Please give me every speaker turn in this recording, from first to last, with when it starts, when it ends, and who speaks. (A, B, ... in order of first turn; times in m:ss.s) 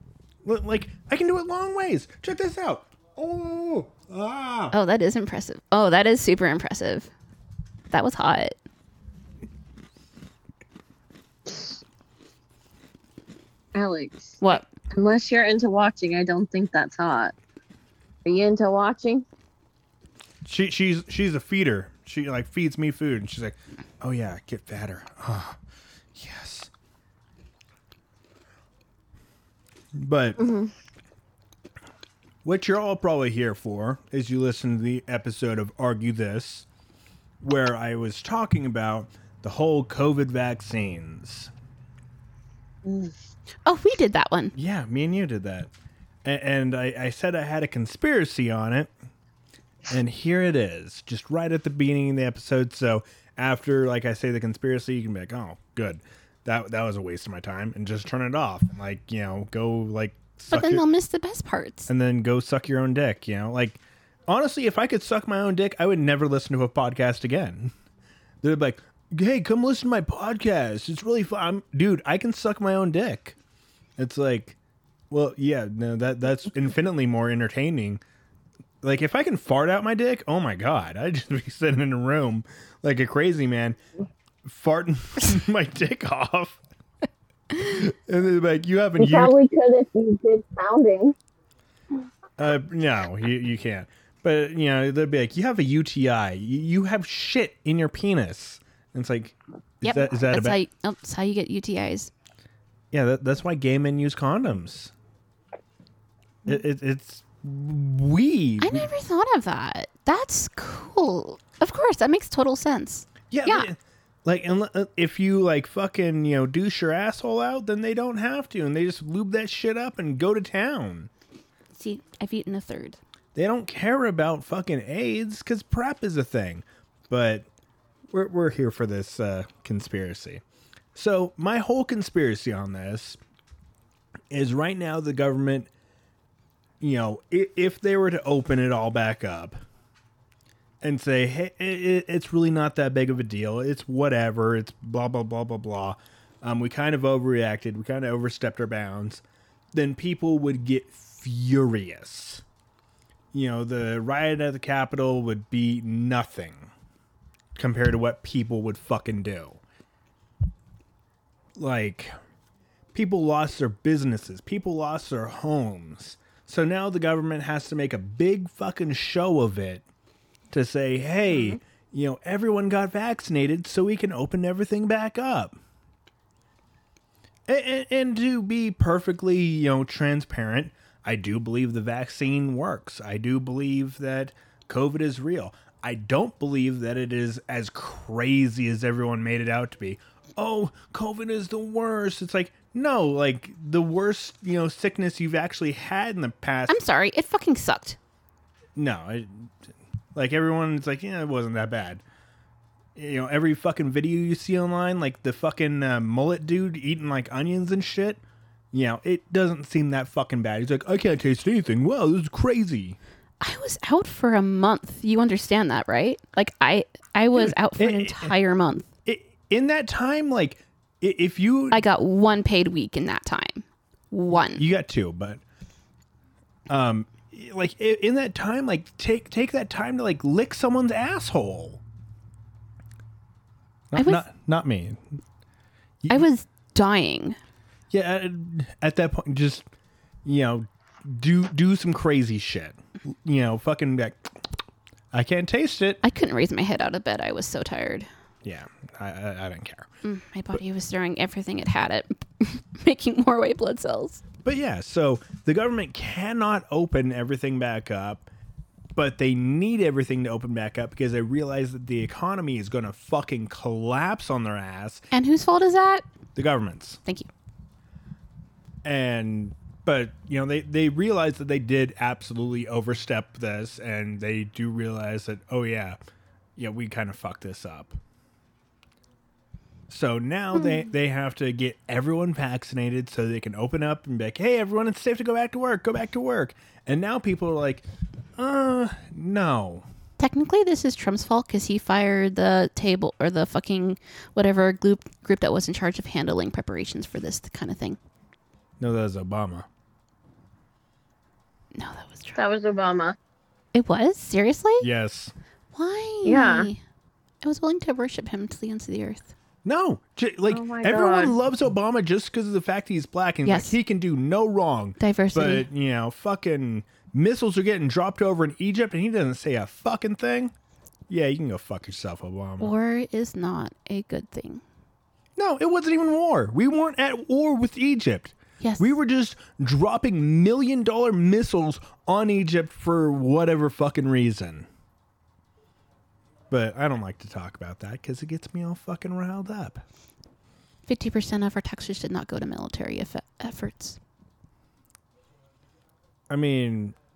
0:00.4-0:04.7 A
0:04.7-0:07.1 B
0:07.9-0:08.6 B
0:11.5-0:11.8 C
0:13.7-0:14.4 C
0:14.4-0:14.7 B
0:14.9-0:17.3 C
0:18.2-0:19.2 C
0:20.4-0:25.6 A
0:26.1-0:26.7 A
0:29.9-0:30.4 A
0:30.4-0:30.7 C
0:32.4-0:36.7 A
0:37.4-0:41.5 A
0:42.8-0:43.1 C
0:43.6-0:44.5 B
0:44.5-0:45.7 A
0:46.2-0:48.9 A
0:49.8-1:00.8 A
1:00.5-1:01.9 B
1:01.9-1:07.7 A
1:08.4-1:13.4 A
1:14.0-1:14.6 A
1:15.1-1:18.0 A
1:18.8-1:23.8 A
1:24.4-1:26.6 A
1:27.5-1:29.3 A
1:29.0-1:31.2 C
1:32.4-1:40.6 A
1:39.8-1:42.1 B
1:42.9-1:44.9 A
1:46.4-1:48.9 A
1:48.6-1:53.7 B
1:53.3-2:01.1 A
2:01.7-2:03.0 B
2:03.3-2:07.5 A
2:08.1-2:10.4 A
2:10.9-2:13.2 A
2:14.3-2:15.7 A
2:16.8-2:19.6 A
2:20.8-2:29.2 A
2:29.7-2:32.4 A
2:33.3-2:36.7 A
2:37.6-2:39.6 A
2:41.6-2:42.1 A
2:42.9-2:49.8 A
2:50.5-2:55.6 A
2:51.3-2:51.6 C
2:57.5-3:16.8 A
3:16.7-3:18.0 B
3:18.7-3:19.5 A
3:20.1-3:22.0 A
3:23.0-3:28.2 A
3:28.7-3:33.0 A
3:33.4-3:38.8 B
3:37.3-3:38.3 A
3:39.0-3:41.8 A
3:41.7-3:44.6 B
3:44.6-3:45.4 A
3:46.7-3:51.8 A
3:53.9-3:55.0 A
3:54.0-3:54.2 B
3:56.1-3:57.4 B
3:57.9-3:59.7 A
4:00.2-4:04.4 A
4:05.1-4:06.0 A
4:06.0-4:08.1 B
4:08.4-4:09.9 A
4:10.0-4:14.2 B
4:14.4-4:18.3 A
4:18.9-4:25.0 A
4:25.1-4:26.0 B
4:26.4-4:27.0 A
4:28.8-4:36.0 A
4:36.6-4:38.0 A
4:39.9-4:47.8 A
4:48.4-4:49.8 A
4:50.2-4:58.0 B
4:58.8-4:59.7 A
5:01.7-5:02.4 B
5:02.4-5:03.2 C
5:03.7-5:04.9 B
5:04.8-5:05.3 A
5:05.7-5:06.8 B
5:06.2-5:06.7 C
5:07.4-5:09.3 B
5:09.6-5:20.5 A
5:10.5-5:11.3 C
5:13.4-5:13.7 B
5:15.0-5:15.6 B
5:21.1-5:22.7 A
5:22.6-5:24.6 B
5:25.4-5:34.7 A
5:28.6-5:28.9 B
5:36.5-5:39.8 A
5:40.9-5:44.0 B
5:46.3-5:47.0 A